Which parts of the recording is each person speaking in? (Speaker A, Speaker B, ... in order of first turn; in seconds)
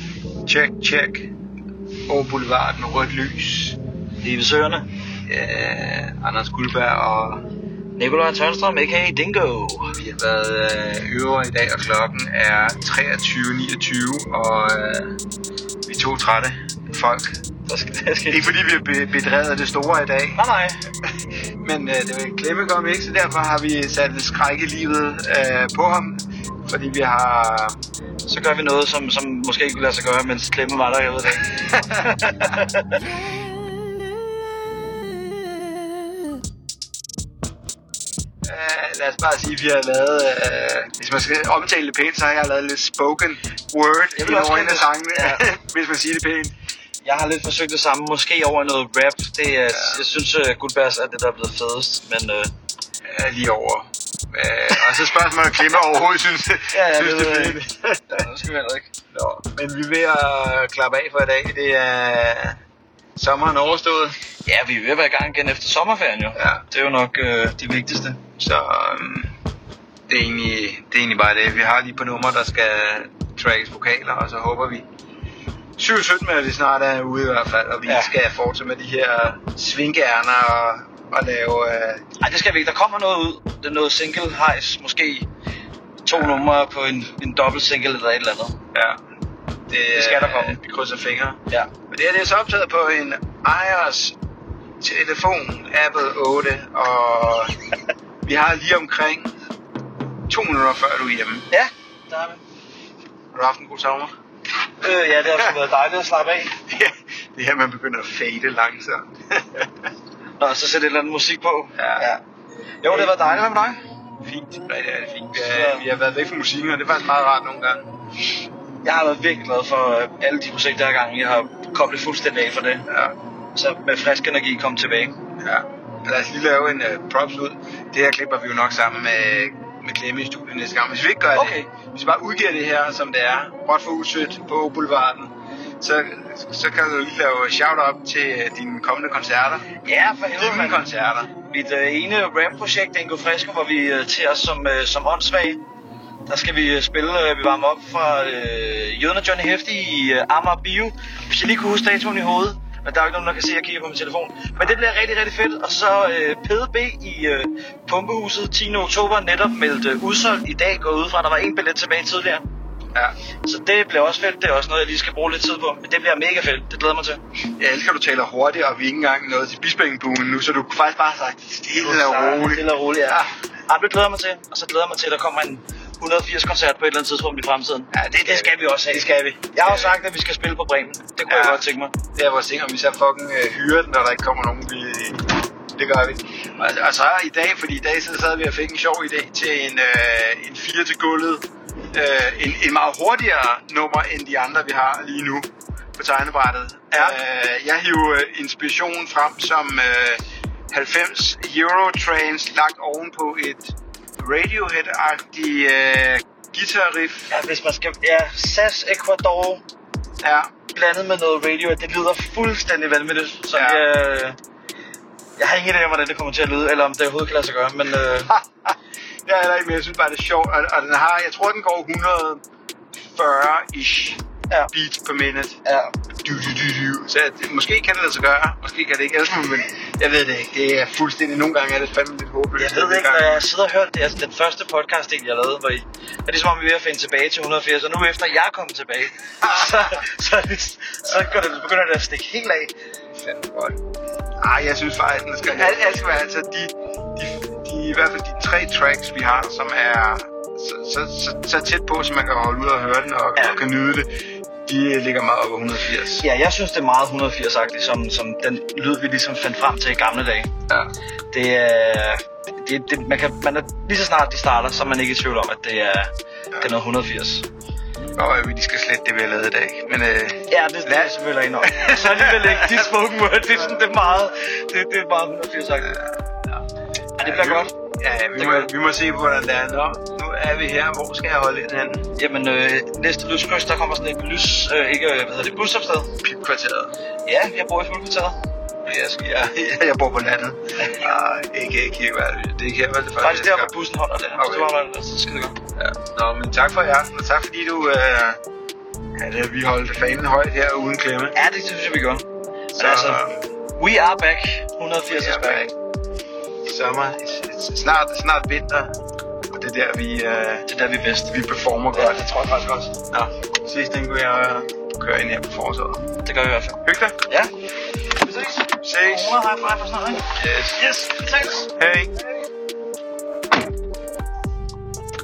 Speaker A: 0.5-1.3, 2.1-3.8, 5.2-7.5, 9.9-15.2, 15.9-17.4, 18.3-20.4, 21.6-27.8, 31.4-32.5, 38.5-46.5, 49.7-50.0, 53.0-58.2, 59.1-62.6, 63.2-64.2, 66.3-66.6, 68.4-69.3, 70.1-74.9, 75.8-82.0, 88.7-89.0, 89.7-94.2, 94.8-97.6, 98.2-99.3, 100.3-101.5, 103.3-104.1, 106.7-109.7, 111.8-112.1, 112.9-113.1, 114.2-117.9, 122.9-123.2, 125.4-139.7, 140.3-141.3, 167.6-173.2, 177.9-180.0, 181.3-207.3, 210.2-210.5, 213.5-213.9, 218.3-218.8, 219.3-222.4, 222.9-224.2, 224.7-225.6, 226.2-233.5, 241.1-241.4, 243.2-243.8, 244.4-254.1, 254.7-256.3, 268.2-272.8, 275.8-276.6, 277.2-282.1, 286.2-286.9, 288.9-293.7, 294.4-294.7, 295.8-298.4, 299.1-301.4, 302.8-303.4, 305.1-305.7, 306.6-308.9, 309.5-310.7, 311.3-312.2, 313.1-316.1, 316.8-317.2, 318.8-319.4, 320.3-320.8, 321.6-322.1
Speaker B: 4.2-4.9, 8.0-10.0, 17.7-18.5, 20.4-20.8, 28.3-33.1, 44.2-45.5, 47.0-52.5, 56.7-58.9, 64.5-68.2, 77.8-78.1, 82.2-85.3, 86.0-88.6, 89.9-90.6, 101.5-102.4, 104.8-106.6, 110.4-112.2, 112.8-113.8, 115.3-115.9, 118.8-122.8, 123.5-125.2, 131.3-131.7, 139.8-140.8, 141.5-145.6, 146.3-162.4, 163.4-167.2, 171.7-181.9, 207.3-209.6, 210.7-214.4, 215.4-218.3, 225.7-225.9, 232.6-242.7, 245.4-245.8, 256.2-260.5, 261.3-267.5, 270.5-276.0, 277.2-277.7, 278.4-278.7, 282.2-286.1, 287.3-288.4, 293.2-295.6, 301.3-303.2, 303.8-305.7, 310.7-311.3, 311.9-313.0, 316.2-317.5, 318.1-321.7